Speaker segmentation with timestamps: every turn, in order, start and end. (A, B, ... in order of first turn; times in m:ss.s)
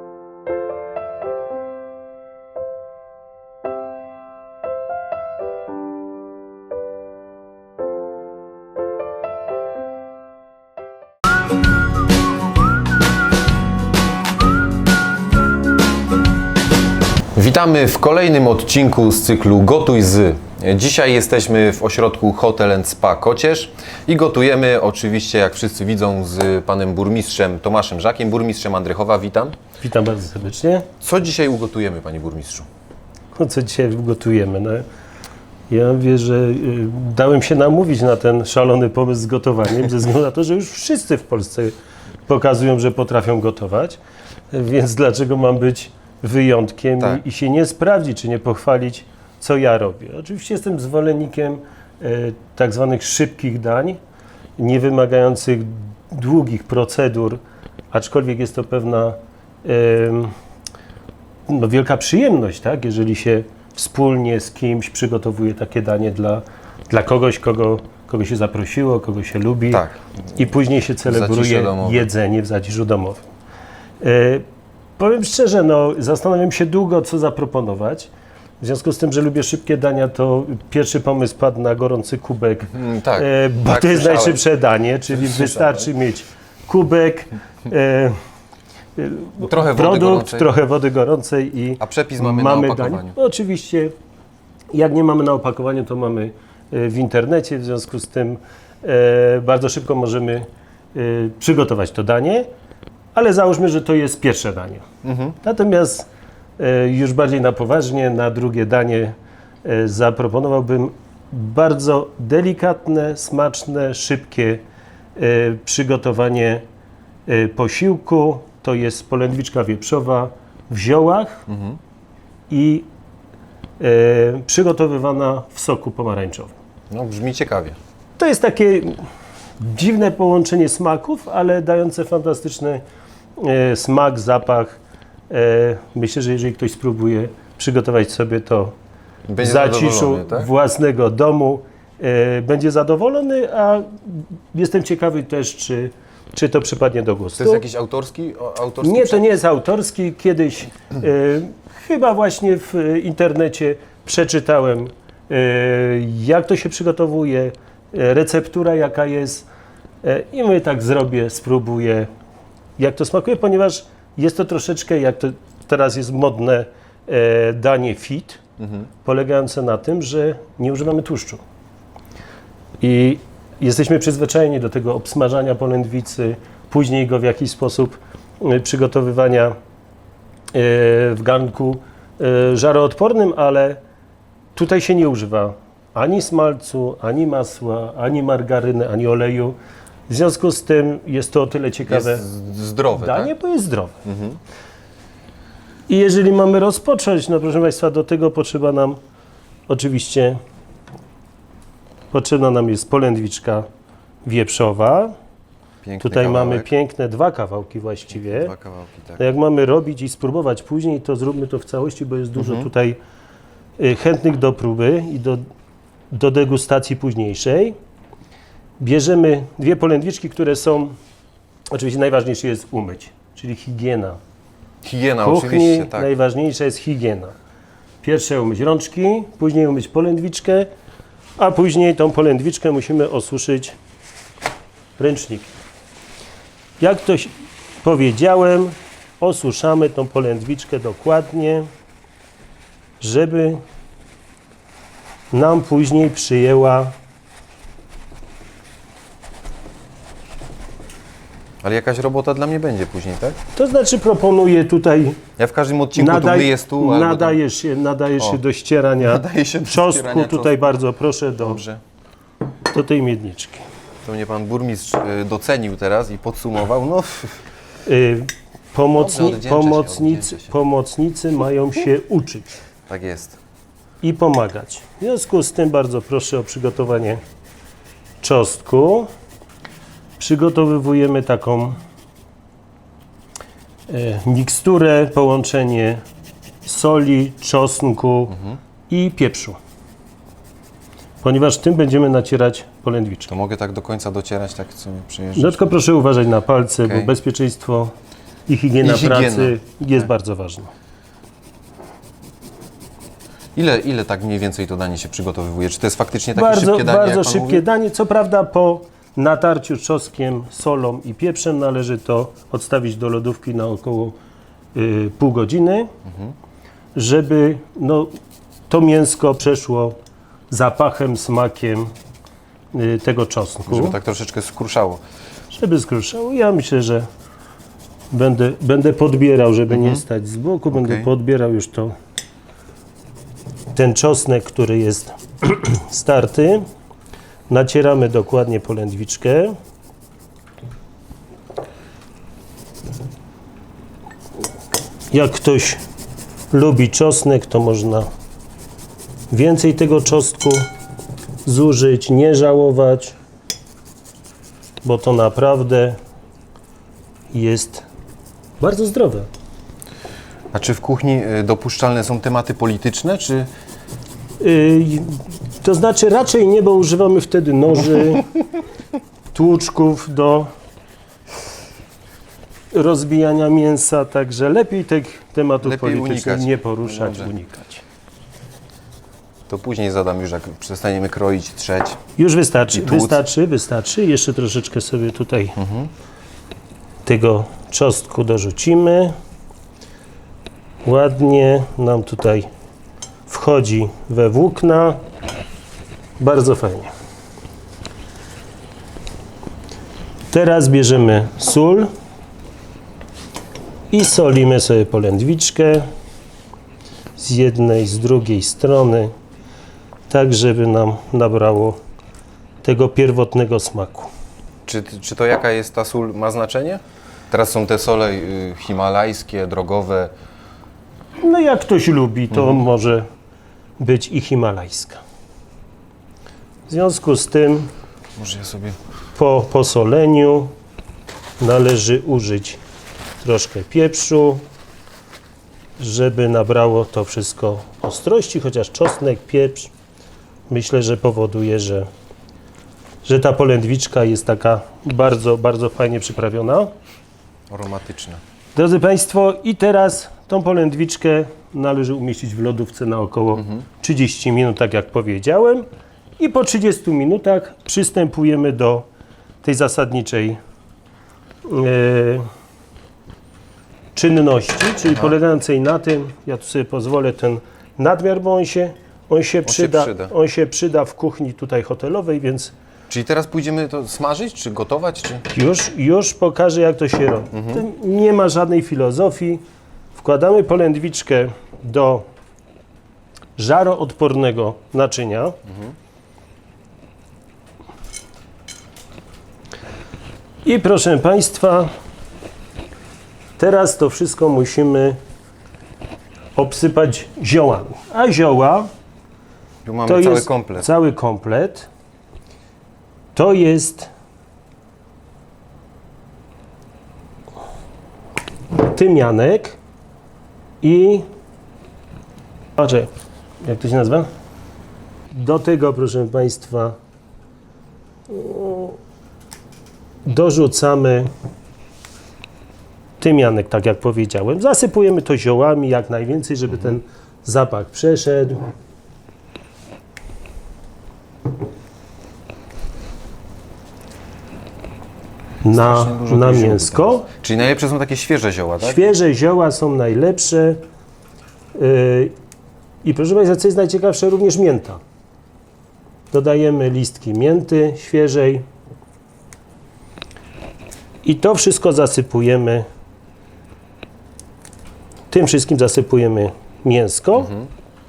0:17.3-0:29.6 A
0:29.8-0:30.8 B
0:31.0-0:32.7 A
0:33.3-0:34.8 B
0:35.7-0:41.8 B
0:42.3-0:44.0 B
0:44.5-0:54.0 B
0:54.6-0:57.4 B
0:57.9-1:00.3 B
1:01.5-1:09.8 B
1:09.7-1:10.0 A
1:10.3-1:13.2 B
1:11.0-1:12.1 A
1:14.0-1:14.4 B
1:15.0-1:28.2 B
1:22.7-1:24.4 A
1:25.2-1:25.9 A
1:29.0-1:33.9 B
1:29.4-1:30.5 A
1:31.8-1:33.2 A
1:34.7-1:42.5 B
1:43.1-1:44.8 B
1:45.0-1:45.4 A
1:45.4-1:54.6 B
1:55.2-1:56.6 B
1:57.3-2:01.4 B
2:01.5-2:01.8 A
2:02.5-2:02.8 B
2:03.8-2:06.5 B
2:06.9-2:07.8 A
2:08.2-2:09.0 B
2:09.6-2:12.8 B
2:13.4-2:14.8 B
2:15.3-2:18.7 B
2:19.3-2:20.5 A
2:19.4-2:27.6 B
2:27.4-2:29.2 A
2:28.8-2:39.5 B
2:40.0-2:42.1 B
2:42.8-2:48.4 B
2:49.0-2:51.4 B
2:52.8-2:59.5 B
3:00.5-3:03.8 B
3:04.5-3:09.6 B
3:10.1-3:12.2 B
3:11.9-3:13.3 A
3:13.0-3:14.0 B
3:14.0-3:14.4 A
3:15.9-3:19.0 B
3:19.7-3:20.4 B
3:22.1-3:23.6 B
3:24.2-3:25.1 B
3:25.8-3:26.7 A
3:26.0-3:28.5 B
3:28.2-3:29.2 A
3:29.2-3:33.0 B
3:32.4-3:32.7 A
3:33.8-3:35.4 B
3:36.1-3:37.8 B
3:38.8-3:41.0 B
3:41.7-3:44.2 B
3:44.8-3:46.1 A
3:45.2-3:47.3 B
3:48.0-3:50.7 B
3:51.4-3:53.8 B
3:55.0-3:55.5 B
3:56.8-4:01.6 B
4:03.0-4:03.6 B
4:05.3-4:06.9 B
4:11.6-4:13.4 A
4:13.6-4:15.2 B
4:15.4-4:17.4 A
4:15.9-4:21.6 B
4:19.0-4:20.6 A
4:21.4-4:21.8 A
4:22.7-4:23.6 B
4:24.0-4:27.4 A
4:27.8-4:32.5 B
4:28.9-4:30.5 A
4:32.9-4:33.4 A
4:34.0-4:37.2 B
4:38.2-4:39.1 B
4:40.2-4:41.8 B
4:43.9-4:46.0 B
4:46.6-4:48.4 B
4:48.9-4:49.6 B
4:51.2-4:53.3 B
4:53.3-4:55.7 A
4:55.3-4:57.9 B
4:56.8-4:57.1 A
4:58.5-5:00.7 B
4:58.8-4:59.6 A
5:03.5-5:07.6 A
5:06.3-5:14.2 B
5:14.7-5:15.9 B
5:16.1-5:16.3 A
5:16.9-5:18.1 B
5:18.7-5:20.0 B
5:20.5-5:21.9 B
5:22.7-5:24.0 B
5:23.7-5:25.0 A
5:25.5-5:27.1 B
5:28.1-5:31.9 B
5:29.7-5:30.0 A
5:30.7-5:31.1 A
5:33.7-5:36.6 B
5:37.5-5:39.5 B
5:45.1-5:45.8 B
5:46.5-5:48.1 B
5:49.3-5:50.6 B
5:51.4-5:53.1 B
5:54.8-5:56.0 B
5:57.3-5:57.8 B
5:58.6-5:59.3 B
6:00.5-6:03.5 A
6:04.4-6:08.3 B
6:09.3-6:10.5 B
6:12.7-6:17.8 B
6:15.6-6:17.3 A
6:19.5-6:22.0 A
6:22.2-6:25.6 B
6:22.7-6:23.2 A
6:25.6-6:25.9 A
6:27.0-6:29.1 B
6:30.8-6:32.5 B
6:33.3-6:35.0 B
6:36.2-6:36.9 B
6:40.3-6:41.9 B
6:43.9-6:45.8 B
6:47.2-6:49.1 B
6:50.1-6:51.8 B
6:52.6-6:54.1 B
6:54.7-7:00.1 A
7:01.2-7:03.0 B
7:02.3-7:02.6 A
7:03.8-7:05.0 B
7:06.7-7:07.7 B
7:08.2-7:08.8 A
7:09.2-7:10.5 B
7:11.4-7:12.6 B
7:13.2-7:14.4 B
7:15.8-7:19.7 B
7:20.5-7:21.9 B
7:23.0-7:26.7 B
7:27.5-7:28.2 A
7:28.6-7:35.6 B
7:33.4-7:33.6 A
7:36.2-7:38.8 B
7:39.4-7:40.4 B
7:41.4-7:42.2 B
7:43.9-7:52.5 B
7:49.4-7:50.1 A
7:52.9-7:55.3 A
7:55.3-7:59.4 B
7:57.3-7:57.6 A
7:59.9-8:02.0 B
8:03.4-8:05.4 B
8:10.4-8:11.7 B
8:13.4-8:15.0 B
8:16.4-8:18.7 B
8:19.6-8:20.7 A
8:19.8-8:21.7 B
8:23.1-8:23.9 B
8:28.5-8:29.6 B
8:30.6-8:31.0 B
8:32.6-8:32.9 B
8:33.4-8:34.1 B
8:35.1-8:36.7 B
8:38.1-8:38.8 B
8:40.0-8:41.1 B
8:43.0-8:48.4 B
8:55.4-8:57.0 B
8:55.5-8:58.8 A
8:58.6-9:00.6 B
9:01.6-9:02.1 B
9:02.8-9:04.8 B
9:06.1-9:08.4 B
9:11.0-9:12.6 B
9:15.1-9:17.3 B